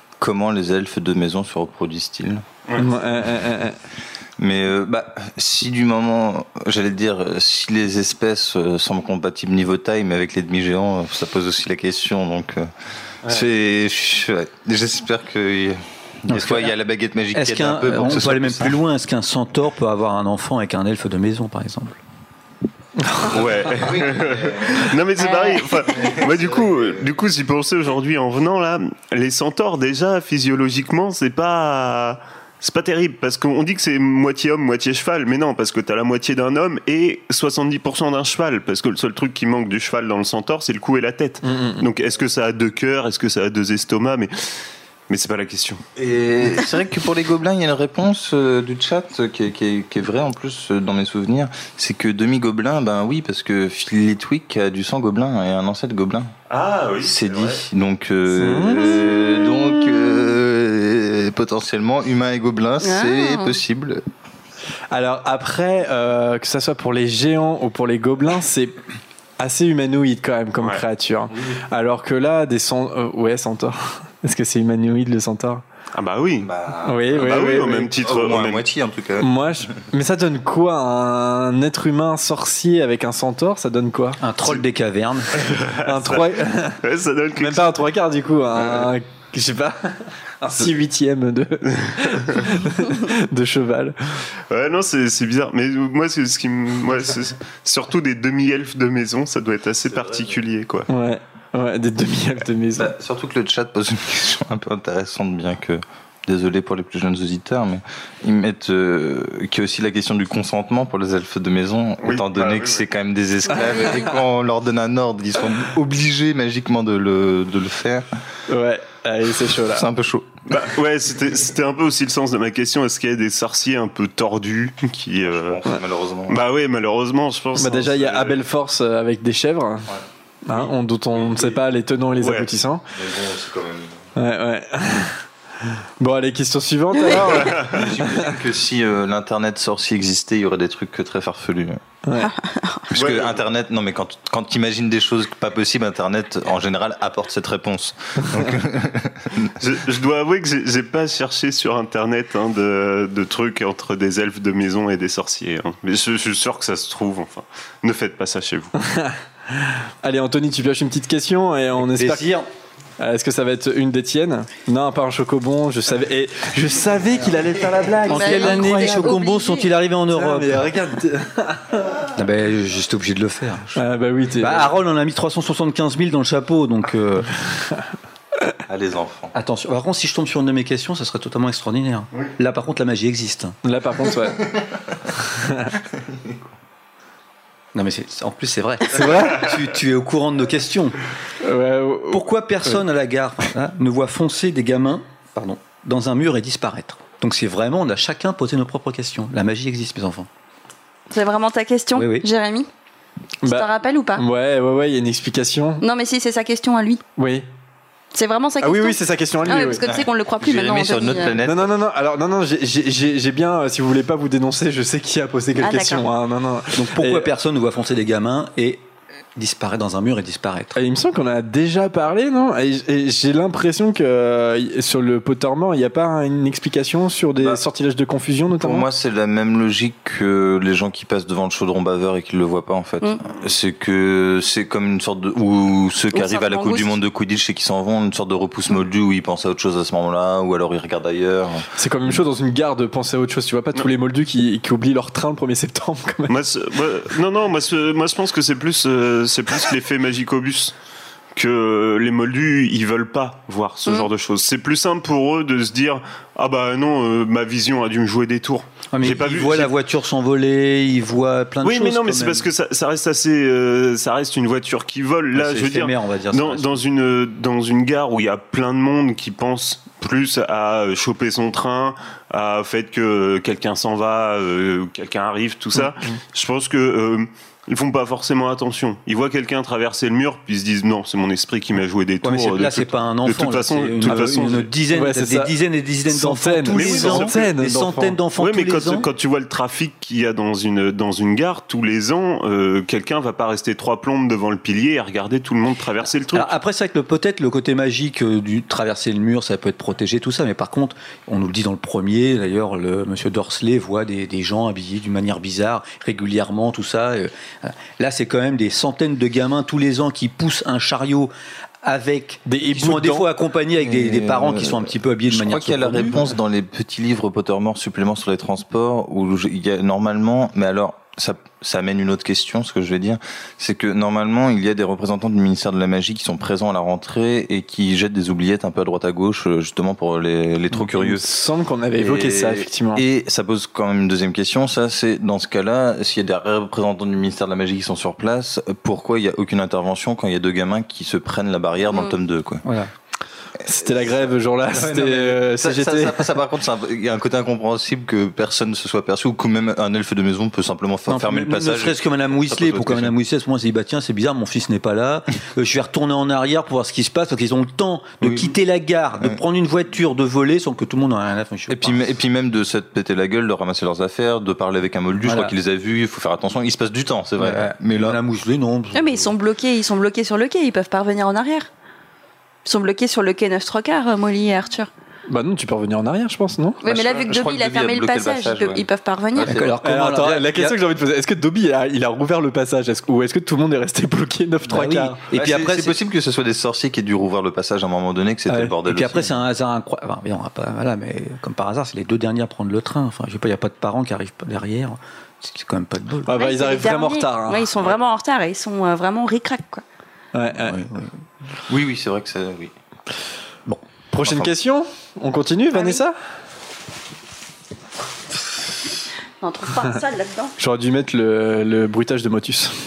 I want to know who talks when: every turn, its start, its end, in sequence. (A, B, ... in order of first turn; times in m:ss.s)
0:00.2-0:02.4 A
0:02.8-0:03.8 B
0:04.4-0:12.7 A
0:13.2-0:18.8 A
0:16.3-0:16.7 C
0:17.3-0:22.0 C
0:23.0-0:23.3 B
0:23.3-0:44.3 D
0:23.3-0:24.9 A
0:25.2-0:25.8 E
0:25.8-0:27.1 A
0:41.4-0:41.9 B
0:45.1-0:45.8 D
0:46.0-0:56.3 A
0:56.5-0:57.6 D
0:57.0-1:04.0 A
0:58.3-0:59.3 B
1:02.8-1:03.5 E
1:04.9-1:08.8 B
1:09.4-1:15.6 B
1:15.9-1:16.5 D
1:16.4-1:17.3 A
1:16.8-1:17.9 B
1:17.1-1:18.6 D
1:18.0-1:19.3 A
1:19.2-1:24.2 B
1:24.2-1:25.3 C
1:25.4-1:27.8 D
1:25.8-1:26.8 B
1:27.4-1:34.2 B
1:34.5-1:40.9 D
1:39.9-1:40.4 A
1:40.9-1:42.9 B
1:42.8-1:58.1 A
1:52.0-1:52.8 D
1:58.5-1:59.9 B
1:59.6-2:00.3 A
2:00.5-2:05.6 D
2:05.2-2:06.4 A
2:06.3-2:08.4 D
2:07.6-2:09.9 B
2:10.4-2:12.8 B
2:12.2-2:12.5 D
2:12.9-2:14.0 A
2:14.2-2:15.2 B
2:16.0-2:18.3 B
2:17.3-2:17.7 D
2:17.4-2:21.8 A
2:22.0-2:22.3 B
2:22.2-2:22.8 E
2:22.9-2:29.6 A
2:22.9-2:23.4 D
2:29.6-2:38.7 D
2:38.8-2:42.3 B
2:41.8-2:42.5 C
2:43.0-2:49.2 B
2:48.1-2:49.7 E
2:48.1-2:50.7 C
2:50.1-2:52.0 B
2:52.1-2:53.8 C
2:53.8-2:54.8 B
2:54.4-2:57.3 C
2:58.7-2:59.3 A
2:59.3-3:03.6 C
3:03.6-3:04.4 B
3:04.5-3:04.8 A
3:05.3-3:05.7 B
3:05.8-3:06.5 A
3:07.7-3:11.0 C
3:08.9-3:09.5 B
3:11.4-3:12.8 B
3:12.1-3:20.3 C
3:21.1-3:22.7 E
3:21.9-3:22.3 C
3:23.4-3:25.8 B
3:23.4-3:24.2 E
3:25.8-3:27.0 E
3:27.2-3:27.5 B
3:28.1-3:31.4 E
3:28.6-3:29.8 B
3:29.8-3:31.7 A
3:31.4-3:37.3 B
3:35.6-3:36.1 E
3:36.7-3:40.8 C
3:40.8-3:48.9 B
3:47.4-3:47.6 A
3:48.6-4:01.7 A
3:56.1-3:56.9 E
4:01.8-4:06.3 B
4:06.3-4:10.7 D
4:11.3-4:19.7 D
4:18.9-4:22.4 C
4:21.6-4:44.7 D
4:25.3-4:26.8 C
4:42.2-4:49.1 C
4:44.9-4:45.5 B
4:46.0-4:48.2 B
4:46.7-4:47.4 D
4:48.4-4:56.5 D
4:56.3-5:11.3 C
5:11.8-5:16.2 C
5:12.4-5:13.3 B
5:13.8-5:31.3 A
5:30.7-5:33.0 B
5:32.0-5:42.6 A
5:42.6-5:42.9 C
5:43.6-5:46.3 B
5:43.7-5:53.1 A
5:51.1-6:02.0 C
5:58.2-5:58.5 A
6:01.7-6:08.2 A
6:05.2-6:05.5 C
6:07.4-6:09.3 C
6:08.9-6:11.7 E
6:12.6-6:14.9 E
6:15.3-6:16.8 B
6:16.8-6:19.6 E
6:16.8-6:19.8 A
6:19.4-6:20.8 C
6:19.8-6:25.2 B
6:24.6-6:25.9 C
6:25.3-6:29.3 A
6:28.5-6:36.4 C
6:36.2-6:37.7 B
6:36.3-6:39.8 E
6:40.3-6:40.9 B
6:40.6-6:41.1 C
6:41.7-6:42.7 A
6:44.1-6:46.1 B
6:45.7-6:46.0 E
6:49.4-6:50.5 E
6:50.6-6:52.7 B